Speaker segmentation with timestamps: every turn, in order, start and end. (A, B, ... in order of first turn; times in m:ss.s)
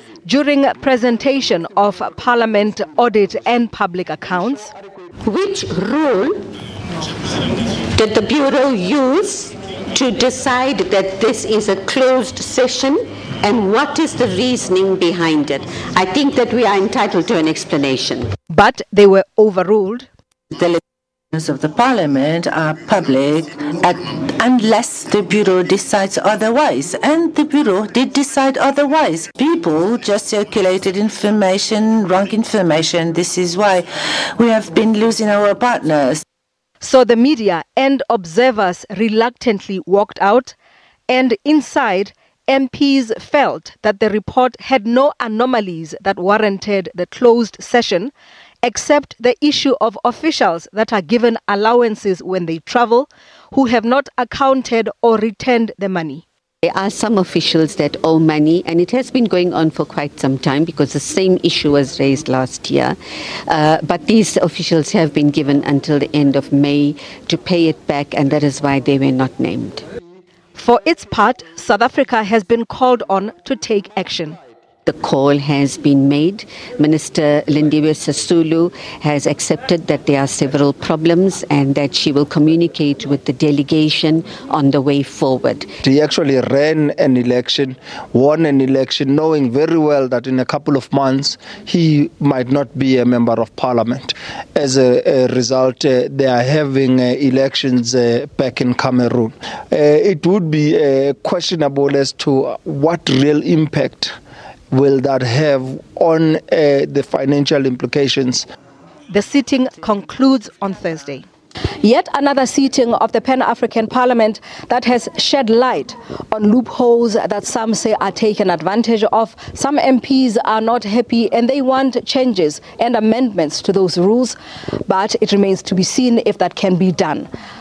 0:00.2-0:04.7 A
0:05.2-0:06.4 B
0:07.9-0:18.3 B
0:18.5-0:20.1 A
0:20.5-0:20.8 C
0:21.3-0:36.2 C
0:36.8-0:40.5 A
0:41.1-0:48.1 A
0:48.6-0:56.2 A
0:56.7-1:03.0 B
1:03.5-1:09.8 B
1:10.6-1:14.4 A
1:14.8-1:25.7 B
1:25.8-1:44.1 D
1:44.7-1:48.4 D
1:49.1-1:51.2 A
1:51.8-2:04.4 A
2:04.9-2:07.3 A